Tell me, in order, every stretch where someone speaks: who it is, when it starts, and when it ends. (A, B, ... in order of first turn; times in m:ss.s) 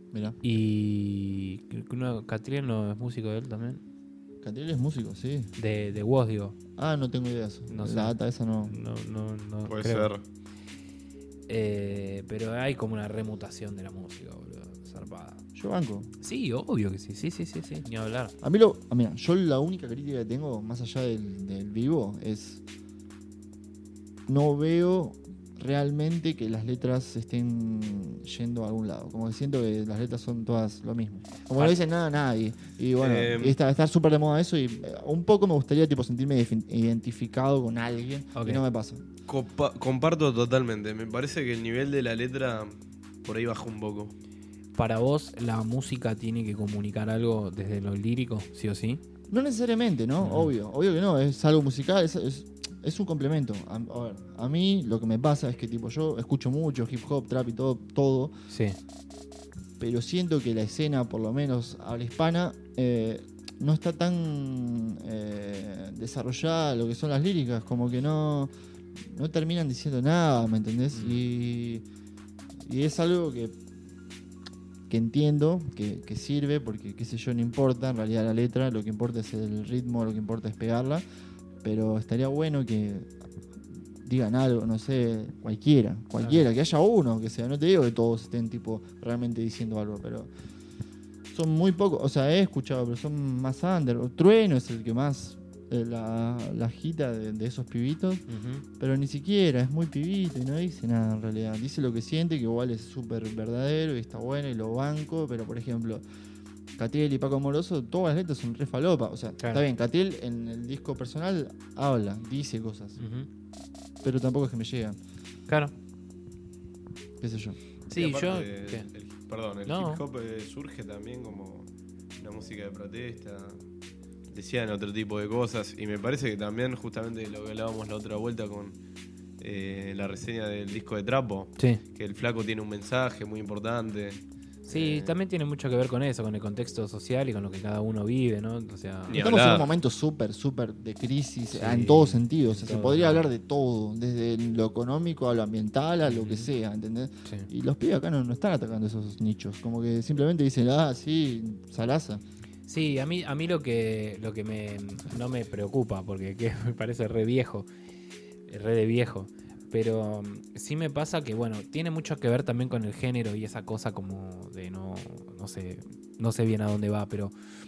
0:00.1-0:00.4 A
0:00.4-0:03.8 B
0:04.4-0:05.5 A
0:05.6-0:06.6 B
0:06.8-0:08.7 A
0:07.7-0:10.1 B
0:09.7-0:10.2 C
0:11.5-0:15.4 B
0:15.5-0:16.1 A
0:16.2-0:18.3 B
0:18.4-0:22.6 A
0:24.3-0:39.0 A
0:33.0-0:33.6 C
0:38.4-0:38.6 B
0:39.3-0:42.7 C
0:43.2-0:44.1 C
0:44.8-0:49.0 B
0:49.3-0:58.3 A
0:50.2-0:50.5 B
0:58.5-0:58.8 B
0:59.8-1:11.8 A
1:10.9-1:11.2 B
1:12.6-1:13.6 A
1:14.9-1:21.0 A
1:21.6-1:23.1 A
1:24.0-1:30.3 A
1:31.3-1:38.2 A
1:38.3-1:38.6 B
1:38.8-1:46.0 A
1:46.8-1:53.0 A
1:49.4-1:49.6 B
1:53.0-1:53.3 B
1:54.0-1:55.0 A
1:57.2-1:57.6 A
1:57.9-1:58.9 B
1:58.0-2:03.6 C
1:59.6-2:00.0 B
2:04.3-2:08.8 C
2:09.4-2:15.2 C
2:14.7-2:19.2 B
2:19.1-2:19.7 C
2:19.1-2:32.2 A
2:21.5-2:23.3 B
2:26.0-2:26.5 B
2:32.7-2:37.7 B
2:38.5-2:47.3 B